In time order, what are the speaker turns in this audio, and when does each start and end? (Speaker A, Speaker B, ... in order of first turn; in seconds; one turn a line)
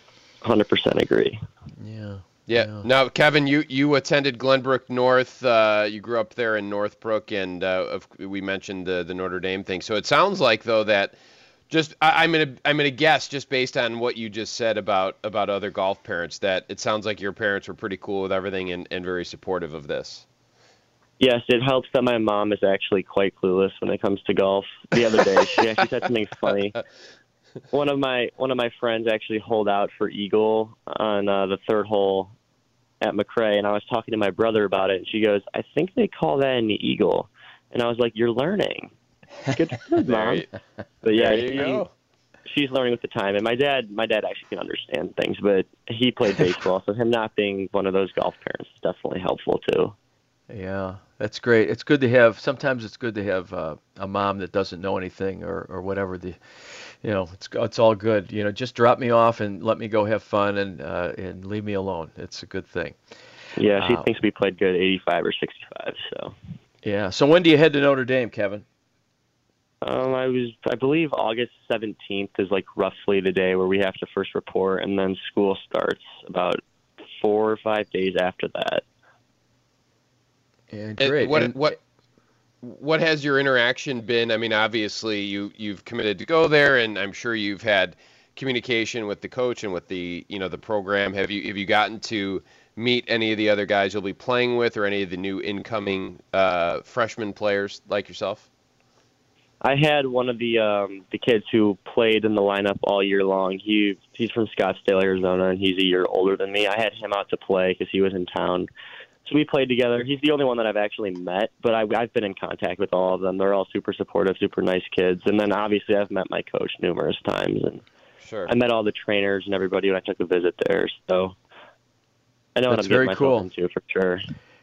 Speaker A: 0.4-1.4
Speaker B: 1.8-2.9
Speaker C: 2.5-11.2
Speaker C: 11.7-20.2
Speaker A: 21.2-26.8
Speaker A: 27.7-32.3
Speaker A: 33.0-38.9
Speaker A: 39.5-40.5
Speaker C: 40.0-40.5
Speaker A: 41.0-41.8
Speaker C: 41.1-41.9
Speaker A: 42.5-50.0
Speaker B: 50.5-63.0
Speaker A: 63.6-66.3
Speaker B: 63.8-64.1
Speaker B: 66.8-68.7
Speaker A: 69.8-76.6
Speaker A: 77.2-78.8
Speaker B: 80.7-81.8
Speaker C: 81.0-81.8
Speaker C: 82.6-98.5
Speaker A: 99.6-108.7
Speaker A: 109.2-117.8
Speaker C: 118.2-118.5
Speaker A: 118.5-121.3
Speaker A: 122.6-124.2
Speaker B: 122.7-123.5